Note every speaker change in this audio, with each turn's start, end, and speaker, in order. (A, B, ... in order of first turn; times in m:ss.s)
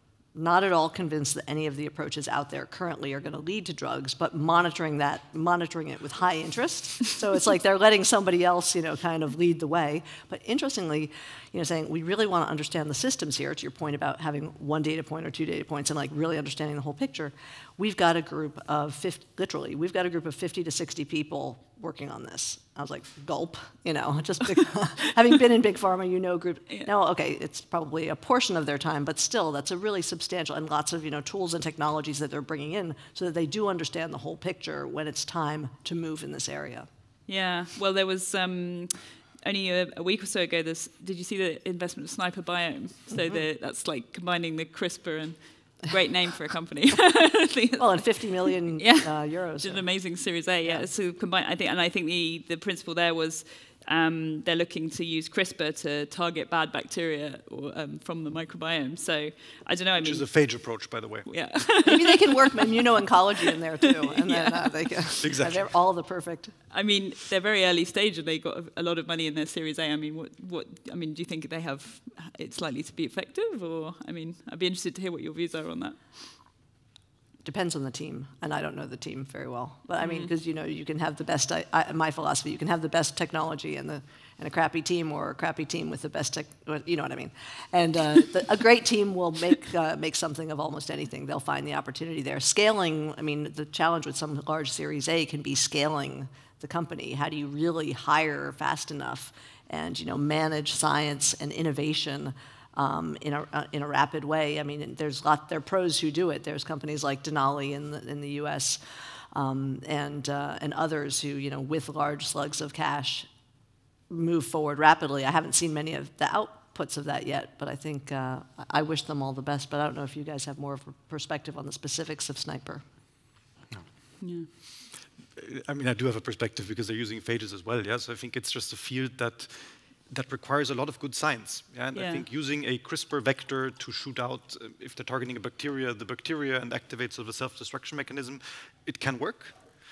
0:00.4-0:36.9 A
0:37.3-0:48.2 B
0:43.1-0:43.4 A
0:47.8-0:49.9 A
0:48.8-1:00.3 B
0:50.6-0:50.9 A
1:00.0-1:01.5 C
1:01.2-1:02.8 B
1:01.9-1:06.6 A
1:03.5-1:05.1 B
1:05.2-1:05.7 C
1:06.7-1:16.3 B
1:17.4-1:48.8 A
1:20.0-1:20.3 B
1:49.3-1:53.3 A
1:54.1-2:02.8 A
2:04.2-2:04.5 B
2:05.4-2:19.6 C
2:11.9-2:12.3 B